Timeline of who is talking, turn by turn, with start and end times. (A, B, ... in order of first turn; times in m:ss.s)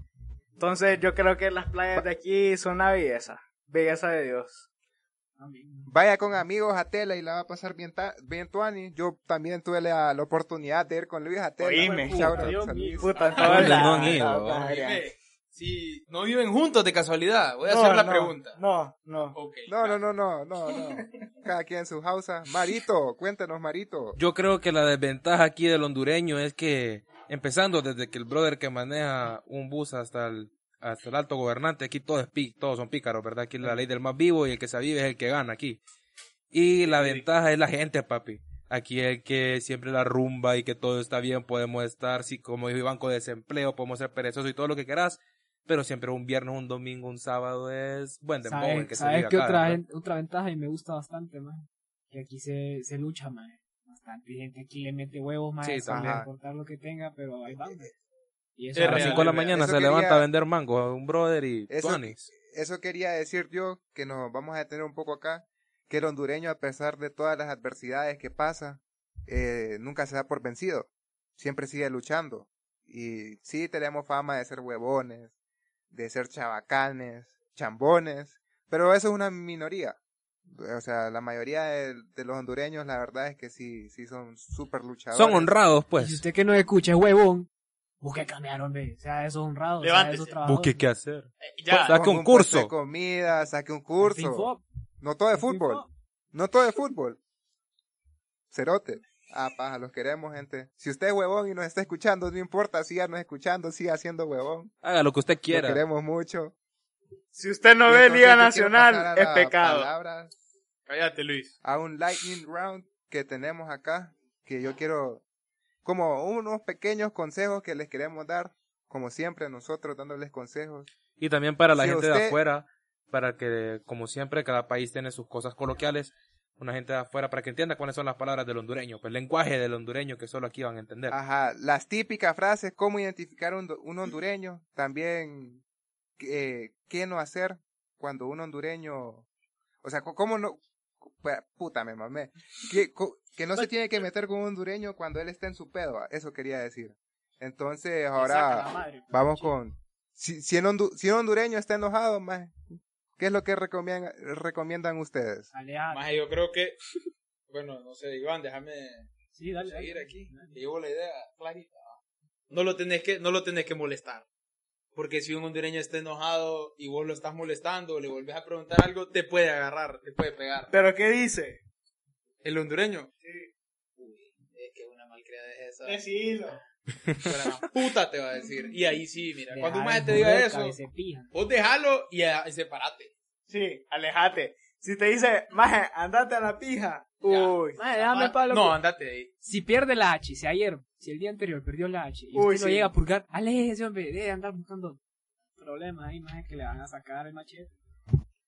0:00.6-0:04.6 A
0:05.4-0:05.9 B
0:05.9-0:13.7 C
0:11.6-0:15.1 A
0:11.8-0:14.1 B
0:13.4-0:14.6 D
0:14.3-0:18.6 E
0:17.7-0:19.4 A
0:19.4-0:20.0 E
0:19.7-0:24.2 C
0:24.2-0:35.8 D
0:36.5-0:49.8 D
0:36.9-0:37.2 E
0:48.4-0:58.0 B
0:55.6-0:56.2 D
0:55.9-0:56.3 C
0:57.5-0:57.9 C
0:58.6-0:59.4 B
0:58.8-0:59.5 E
0:58.8-1:02.3 D
0:59.5-1:00.3 C
1:01.7-1:15.3 C
1:15.9-1:25.5 C
1:25.1-1:26.2 D
1:26.0-1:27.5 B
1:28.0-1:30.8 B
1:29.8-1:30.4 E
1:30.4-1:32.7 D
1:31.4-1:32.0 E
1:31.8-1:34.5 C
1:34.0-1:34.6 B
1:35.0-1:37.2 C
1:35.3-1:35.9 B
1:38.5-1:44.7 C
1:44.8-1:45.8 D
1:45.5-1:46.5 C
1:47.3-1:49.9 A
1:47.9-1:50.3 C
1:50.9-1:51.5 E
1:51.6-1:55.2 C
1:55.8-2:00.9 C
2:01.2-2:11.2 D
2:01.8-2:02.4 C
2:11.1-2:15.6 C
2:16.2-2:19.2 C
2:19.8-2:32.6 C
2:28.2-2:29.5 B
2:33.2-2:35.5 C
2:35.5-2:36.1 B
2:35.9-2:36.8 E
2:37.5-2:39.1 E
2:39.3-2:40.6 B
2:39.6-2:42.0 E
2:42.5-2:44.3 E
2:45.0-2:50.7 E
2:50.7-2:51.6 A
2:52.4-2:53.1 E
2:53.2-2:53.5 A
2:54.0-2:56.0 E
2:55.8-2:56.6 A
2:57.0-2:57.4 D
2:57.2-3:00.8 E
2:59.5-3:01.3 B
3:01.3-3:03.1 E
3:03.5-3:07.8 A
3:07.2-3:09.3 E
3:07.8-3:08.8 B
3:09.4-3:15.0 B
3:12.3-3:12.9 A
3:15.6-3:17.7 B